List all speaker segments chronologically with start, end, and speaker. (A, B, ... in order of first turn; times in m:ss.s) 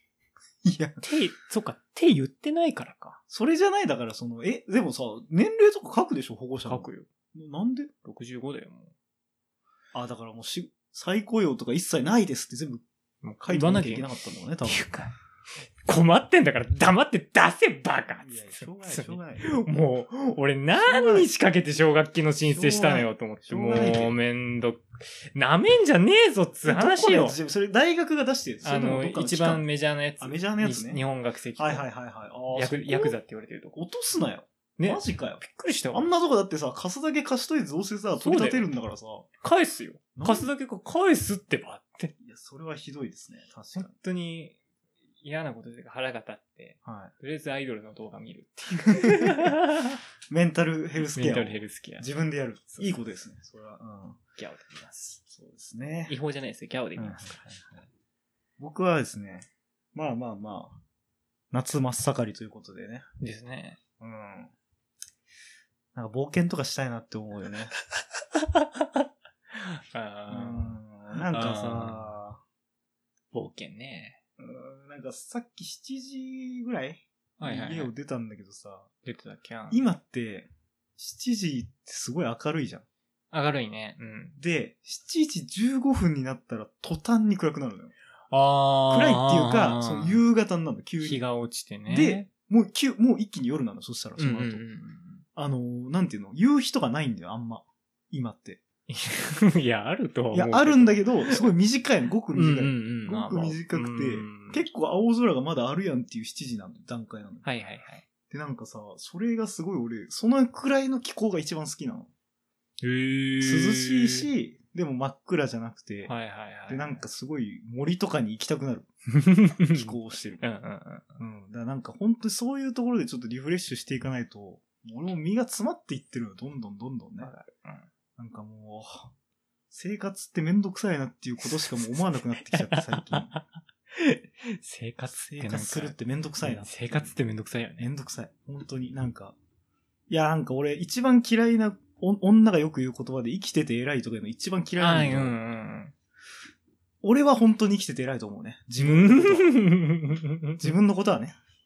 0:00.6-0:01.0 A
0:01.0-0:03.2 B
0:03.3-0:07.9 A
0:06.7-0:07.1 B
0:08.0-0:08.9 B
0:09.9-0:12.8 A
0:13.2-0:14.0 B
0:13.4-0:14.8 A
0:14.7-0:15.1 B
0:15.8-0:27.4 B
0:18.2-0:19.5 A
0:20.8-0:21.3 A
0:22.5-0:24.1 A
0:26.6-0:29.6 A
0:28.6-0:31.8 B
0:30.2-0:31.0 A
0:31.6-0:33.2 A
0:32.5-0:33.8 B
0:33.7-0:35.4 A
0:34.8-0:36.1 B
0:35.9-0:39.2 A
0:38.2-0:38.7 B
0:39.4-0:42.1 B
0:40.1-0:40.5 A
0:42.2-0:43.9 A
0:43.8-0:44.6 B
0:45.2-0:50.0 B
0:46.8-0:47.1 A
0:48.9-0:49.6 A
0:50.3-0:54.2 A
0:51.1-0:52.1 B
0:54.4-0:55.2 B
0:55.2-0:56.2 A
0:56.1-0:57.4 B
0:57.0-0:57.8 A
0:58.6-1:00.8 A
1:01.5-1:03.0 A
1:03.2-1:03.8 B
1:04.0-1:04.5 A
1:05.9-1:07.7 A
1:08.4-1:12.1 B
1:10.3-1:12.4 A
1:13.3-1:14.2 B
1:14.4-1:18.9 A
1:17.4-1:17.9 B
1:19.0-1:19.8 B
1:19.7-1:22.8 A
1:23.3-1:24.4 B
1:24.4-1:27.9 A
1:28.3-1:30.2 B
1:28.9-1:31.2 A
1:31.0-1:32.3 B
1:31.9-1:34.6 A
1:34.2-1:35.2 B
1:35.4-1:38.6 A
1:38.9-1:41.5 B
1:40.3-1:47.4 A
1:42.3-1:44.6 B
1:47.4-1:48.0 B
1:48.3-1:52.1 A
1:52.8-1:54.3 B
1:53.4-1:56.1 A
1:56.0-1:57.0 B
1:56.7-1:58.9 A
1:59.1-2:01.2 B
1:59.7-2:00.4 A
2:01.2-2:07.3 A
2:07.2-2:07.9 B
2:08.2-2:09.1 A
2:09.7-2:13.3 A
2:11.6-2:17.9 B
2:15.3-2:17.1 A
2:17.8-2:19.3 A
2:20.1-2:25.4 A
2:24.8-2:25.9 B
2:27.0-2:29.6 A
2:28.8-2:30.7 B
2:30.6-2:31.4 A